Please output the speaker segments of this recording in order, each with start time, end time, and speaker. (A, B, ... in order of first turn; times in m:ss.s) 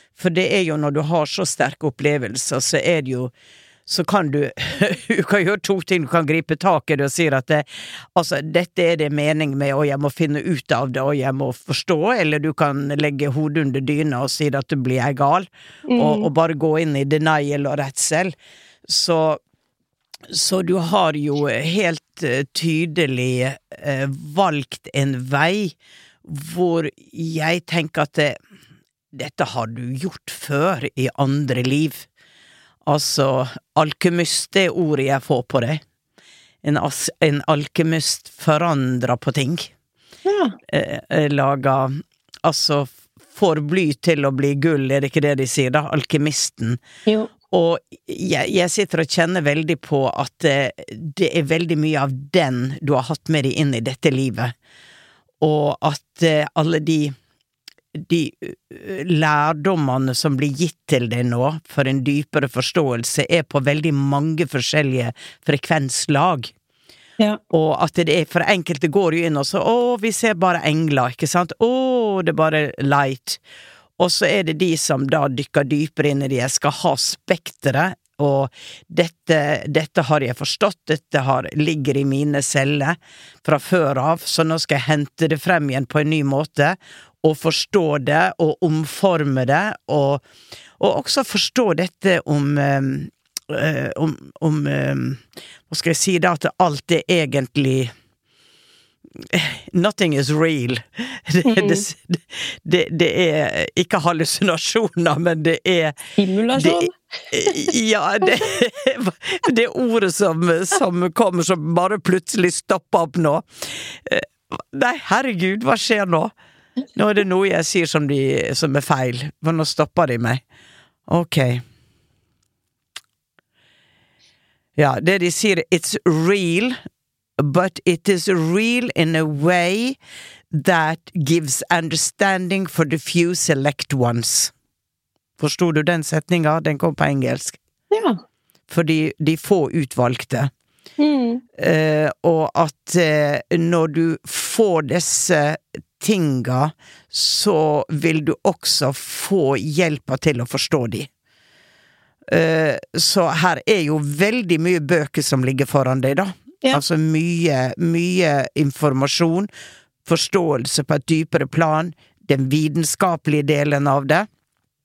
0:00.2-0:03.3 A
0:03.8-0:18.3 A
0:15.9-0:16.3 B
0:18.9-0:19.4 A
0:20.3-0:28.4 A
0:29.1-0:32.1 A
0:32.8-0:35.8 A
0:36.6-0:39.7 A
0:40.2-0:40.6 B
0:40.7-0:46.8 A
0:47.0-0:47.3 B
0:47.5-0:54.5 A
0:55.4-0:57.1 A
0:57.9-1:06.5 A
1:07.5-1:13.4 A
1:14.0-1:30.2 A
1:30.8-1:37.9 A
1:39.3-1:46.0 A
1:41.4-1:41.8 B
1:46.2-1:47.0 B
1:46.6-1:56.3 A
1:56.9-2:00.4 A
2:01.1-2:01.6 A
2:04.8-2:06.8 A
2:07.4-2:10.0 A
2:10.5-2:14.5 A
2:15.4-2:17.6 A
2:17.9-2:18.2 B
2:18.7-2:20.5 A
2:21.0-2:21.4 B
2:21.6-2:31.1 A
2:32.3-2:39.5 A
2:40.0-2:44.3 A